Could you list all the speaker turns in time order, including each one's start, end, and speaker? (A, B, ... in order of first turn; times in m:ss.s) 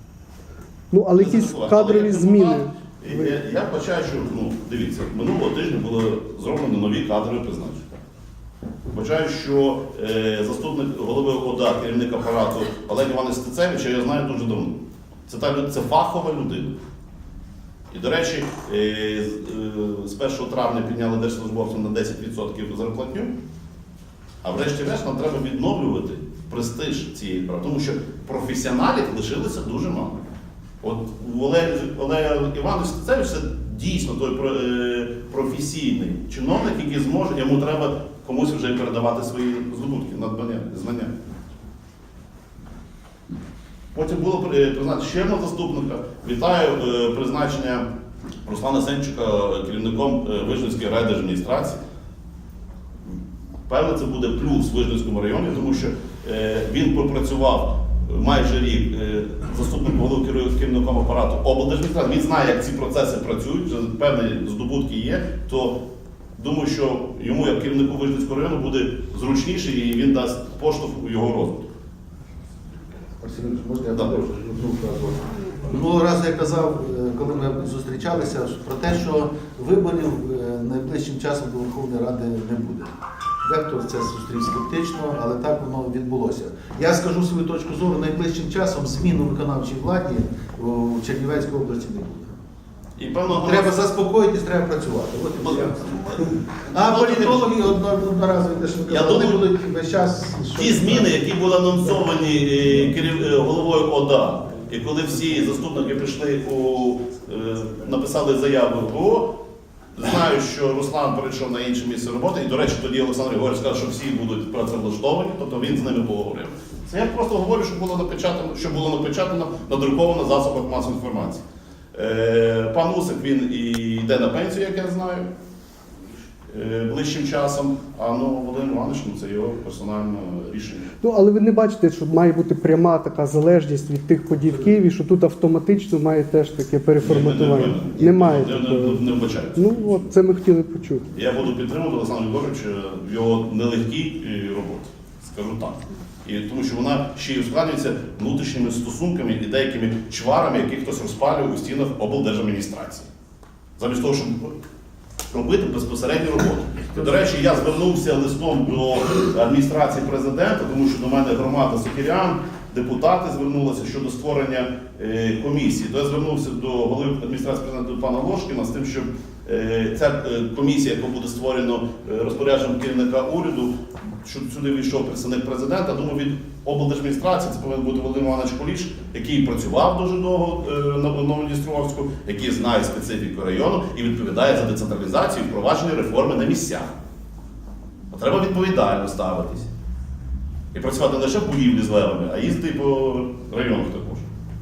0:00.9-0:03.3 A
0:01.2-0:07.8 B
0:08.9-0:14.8 B
0:15.3-0:16.8 B
0:17.9-0:23.3 B
0:24.4-0:30.2 B
0:30.8-0:41.1 B
0:43.9-0:47.8 B
0:48.4-0:51.8 B
0:53.7-1:05.8 B
1:06.4-1:11.7 B
1:13.2-1:22.9 C
1:23.4-1:32.3 C
1:33.0-1:33.8 B
1:33.3-1:35.8 C
1:35.4-1:37.7 B
1:36.7-1:41.2 C
1:38.9-1:39.4 B
1:40.6-1:49.3 B
1:50.0-2:05.3 B
2:06.5-2:10.9 B
2:11.0-2:19.0 A
2:17.0-2:19.7 B
2:19.6-2:21.1 A
2:21.1-2:33.1 B
2:33.8-2:34.5 B
2:35.3-3:06.9 B
3:08.1-3:09.7 B
3:10.7-3:14.2 B